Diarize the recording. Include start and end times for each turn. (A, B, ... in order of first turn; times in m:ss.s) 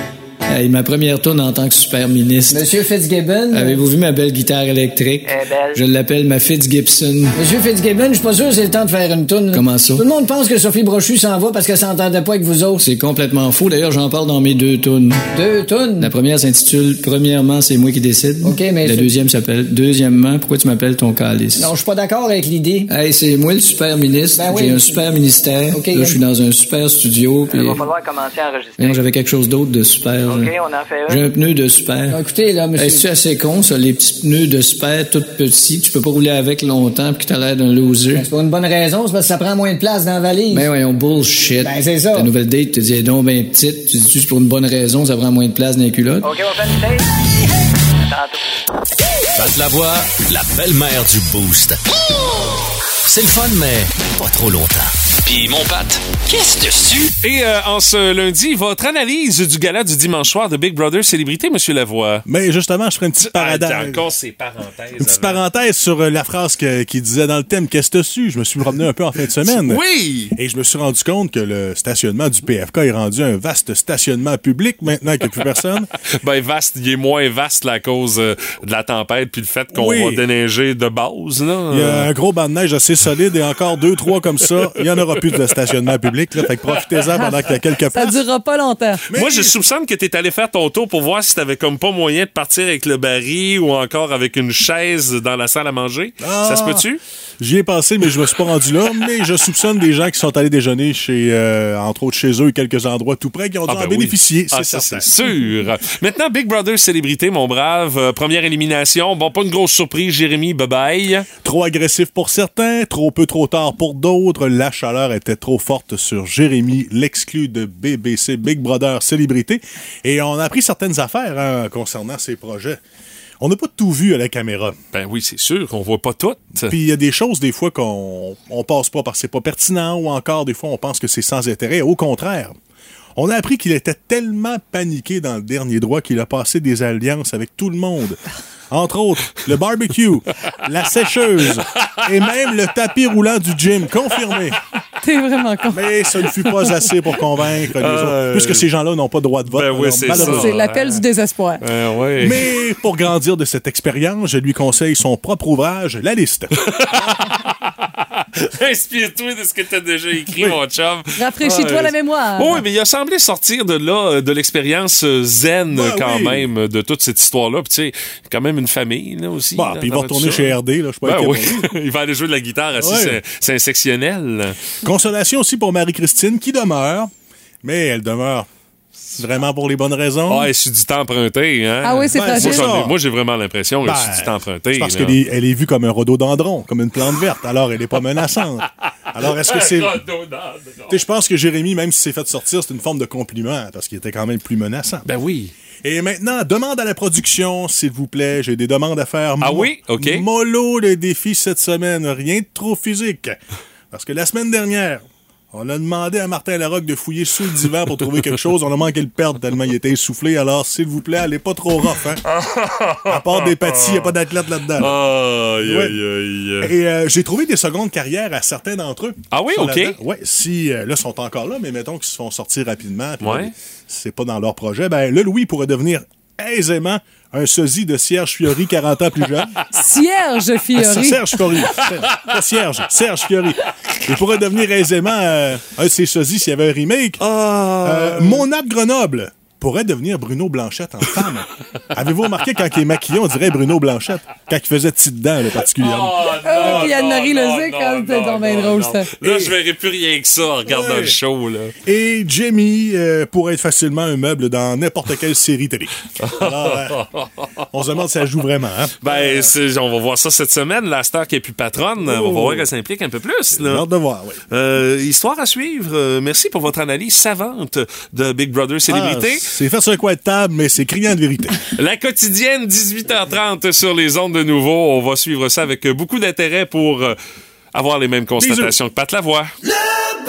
0:00.5-0:02.7 A
0:02.5-0:03.8 B
0:03.5-0:07.4 A
0:05.2-0:05.8 C
0:07.3-0:12.8 B
0:09.5-0:10.0 A
0:12.8-0:15.2 A
0:15.3-0:16.1 B
0:16.0-0:21.7 A
0:18.4-0:19.1 B
0:21.6-0:22.9 B
0:22.9-0:27.8 A
0:24.4-0:25.2 B
0:25.7-0:26.2 B
0:27.5-0:29.0 C
0:28.8-0:30.5 A
0:30.3-0:31.2 C
0:31.1-0:32.2 A
0:32.1-0:33.1 B
0:32.7-0:38.3 A
0:38.1-0:40.6 B
0:40.5-0:46.3 A
0:41.6-0:42.3 B
0:46.2-0:47.0 C
0:48.0-0:48.4 C
0:49.4-0:51.8 D
0:53.1-0:57.1 D
0:57.2-1:02.2 E
1:02.2-1:04.0 F
1:03.2-1:05.4 E
1:05.0-1:15.9 F
1:09.4-1:10.3 E
1:16.1-1:22.1 E
1:19.7-1:20.2 F
1:21.7-1:28.2 F
1:27.1-1:29.0 G
1:29.1-1:29.5 F
1:29.1-1:37.0 E
1:36.2-1:36.8 F
1:37.4-1:45.1 F
1:43.7-1:51.3 E
1:51.4-2:02.8 F
2:03.4-2:04.8 F
2:04.9-2:06.7 E
2:06.6-2:12.5 F
2:13.2-2:24.6 F
2:25.0-2:26.9 G
2:25.7-2:31.0 F
2:27.8-2:28.7 E
2:29.5-2:30.6 E
2:30.1-2:31.6 G
2:31.6-2:32.5 E
2:32.2-2:37.2 F
2:36.6-2:54.6 E
2:41.2-2:42.6 G
2:45.7-2:46.5 F
2:49.5-2:51.7 F
2:52.8-2:53.2 F
2:54.8-2:57.1 F
2:57.6-2:58.5 F
2:59.2-3:00.5 F
3:00.3-3:05.2 E
3:01.8-3:02.7 G
3:02.1-3:02.9 F
3:03.8-3:10.0 F
3:09.3-3:11.0 E
3:10.9-3:15.0 F
3:15.0-3:15.5 E
3:15.8-3:23.4 F
3:19.4-3:20.2 E
3:23.9-3:32.2 F
3:32.2-3:34.1 E
3:33.0-3:35.0 F
3:34.8-3:36.7 E
3:35.6-3:36.0 F
3:36.6-3:49.6 F
3:39.3-3:40.0 E
3:43.2-3:43.5 E
3:49.7-3:51.3 G
3:50.7-3:57.2 F
3:57.2-3:58.4 E
3:57.8-4:06.9 F
4:05.8-4:11.7 E
4:06.4-4:09.1 G
4:09.2-4:09.5 F
4:10.6-4:11.2 F
4:11.8-4:17.0 F
4:16.2-4:17.4 E
4:17.7-4:19.5 F
4:19.0-4:23.9 E
4:22.0-4:22.7 F
4:23.5-4:24.4 F
4:24.5-4:29.5 E
4:28.9-4:31.6 F
4:31.8-4:37.2 E
4:37.7-4:39.5 E
4:38.4-4:38.8 F